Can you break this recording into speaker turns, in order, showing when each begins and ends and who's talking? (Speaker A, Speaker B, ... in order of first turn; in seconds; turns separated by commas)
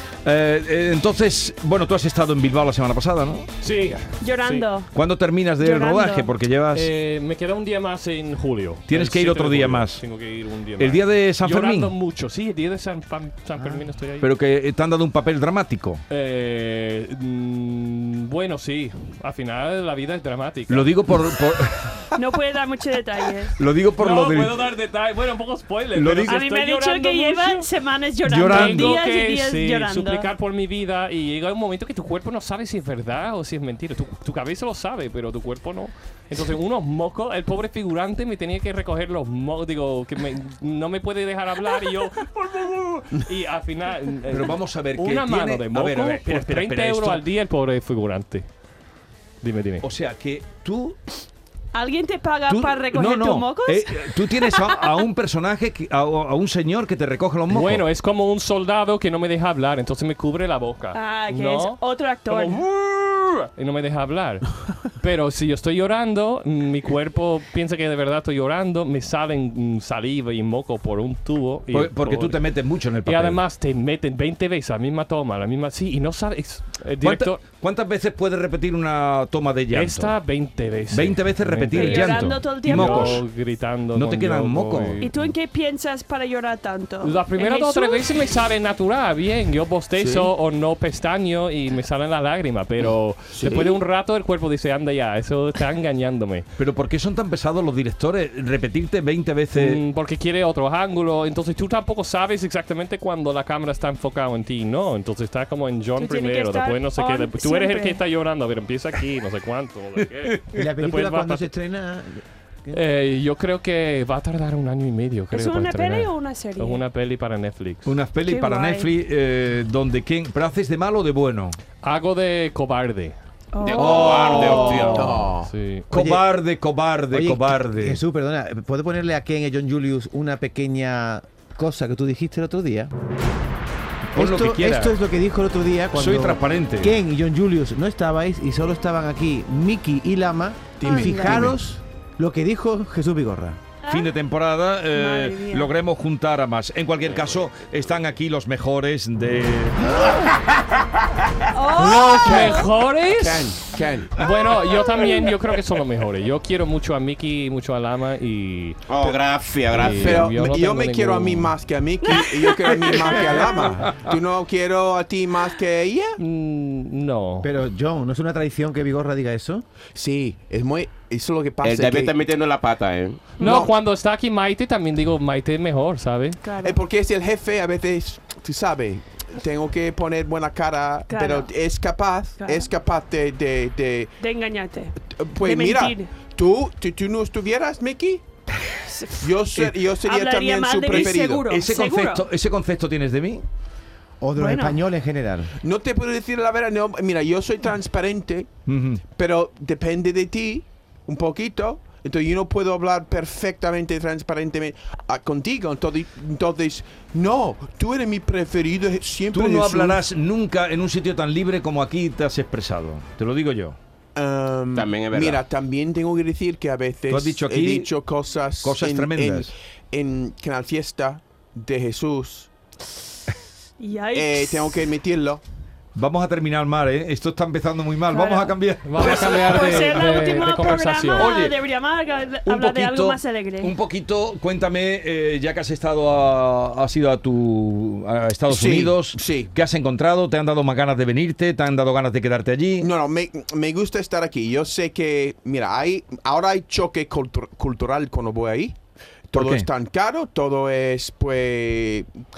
Speaker A: 0.2-3.5, Speaker B: 3.6-4.7, Speaker C: 4.2-4.9, Speaker A: 4.9-6.9, Speaker C: 5.6-6.3, Speaker B: 6.7-14.3, Speaker A: 8.9-10.0, Speaker A: 10.8-11.9, Speaker A: 14.2-16.0, Speaker B: 16.1-20.9, Speaker A: 20.7-22.2, Speaker C: 22.1-23.6, Speaker A: 23.6-24.6, Speaker B: 24.0-27.6, Speaker A: 25.9-26.4, Speaker C: 26.2-30.3, Speaker A: 28.2-29.0, Speaker B: 28.5-48.4, Speaker A: 44.3-47.2, Speaker B: 49.4-49.9, Speaker A: 49.8-51.0, Speaker C: 51.7-54.9, Speaker A: 52.5-57.8, Speaker B: 57.5-72.4, Speaker C: 60.9-62.6, Speaker A: 71.7-73.4, Speaker B: 73.0-77.4, Speaker A: 77.0-80.1, Speaker B: 79.7-85.3, Speaker A: 80.9-83.2, Speaker C: 81.7-83.2, Speaker A: 83.9-85.1, Speaker C: 85.0-88.0, Speaker B: 87.0-96.5, Speaker D: 90.0-90.3, Speaker D: 93.3-93.8, Speaker A: 96.6-99.8, Speaker B: 99.5-111.5, Speaker C: 106.0-108.0, Speaker E: 110.5-112.8, Speaker B: 112.7-117.9, Speaker C: 115.3-116.8, Speaker A: 117.8-121.6, Speaker C: 118.3-118.9, Speaker B: 121.8-123.2, Speaker C: 123.5-124.9, Speaker F: 123.6-125.2, Speaker A: 123.8-125.3, Speaker D: 124.9-125.5, Speaker B: 125.4-125.9, Speaker A: 125.9-128.0, Speaker E: 125.9-126.3, Speaker E: 127.1-132.9, Speaker A: 134.1-135.0, Speaker E: 134.1-143.6, Speaker A: 135.9-136.9, Speaker D: 140.8-141.6, Speaker C: 140.8-141.5, Speaker C: 143.8-144.1, Speaker A: 143.9-150.0, Speaker C: 144.9-145.7, Speaker C: 151.5-152.7, Speaker B: 151.8-153.5, Speaker D: 152.1-152.6, Speaker D: 153.1-154.2, Speaker B: 154.2-158.8, Speaker C: 155.0-155.3, Speaker F: 158.9-160.3, Speaker B: 159.7-161.5, Speaker D: 159.8-166.2, Speaker C: 162.1-162.4, Speaker B: 166.2-167.5, Speaker E: 167.4-169.6, Speaker D: 169.9-172.1, Speaker F: 171.6-173.2, Speaker C: 173.4-173.7, Speaker B: 173.4-176.4, Speaker D: 173.4-173.7, Speaker C: 176.4-176.8, Speaker D: 176.6-184.1, Speaker C: 181.1-181.5, Speaker C: 182.4-182.7, Speaker C: 184.2-186.1, Speaker D: 185.1-188.2, Speaker C: 188.9-189.2, Speaker D: 189.2-191.4, Speaker C: 190.0-192.3, Speaker A: 190.9-193.4, Speaker E: 194.2-195.5, Speaker C: 194.4-194.8, Speaker D: 195.6-210.0, Speaker A: 198.7-199.0, Speaker A: 209.3-213.8, Speaker D: 214.2-222.5, Speaker F: 214.7-215.4, Speaker A: 217.1-217.9, Speaker A: 218.6-219.5, Speaker C: 223.8-224.8, Speaker D: 224.1-225.4, Speaker A: 226.0-230.4, Speaker C: 228.1-228.6, Speaker B: 228.8-231.3, Speaker C: 229.1-233.7, Speaker A: 231.1-231.6, Speaker A: 232.4-242.9, Speaker D: 238.5-239.5, Speaker D: 242.8-248.8, Speaker D: 249.3-252.1, Speaker A: 249.3-249.7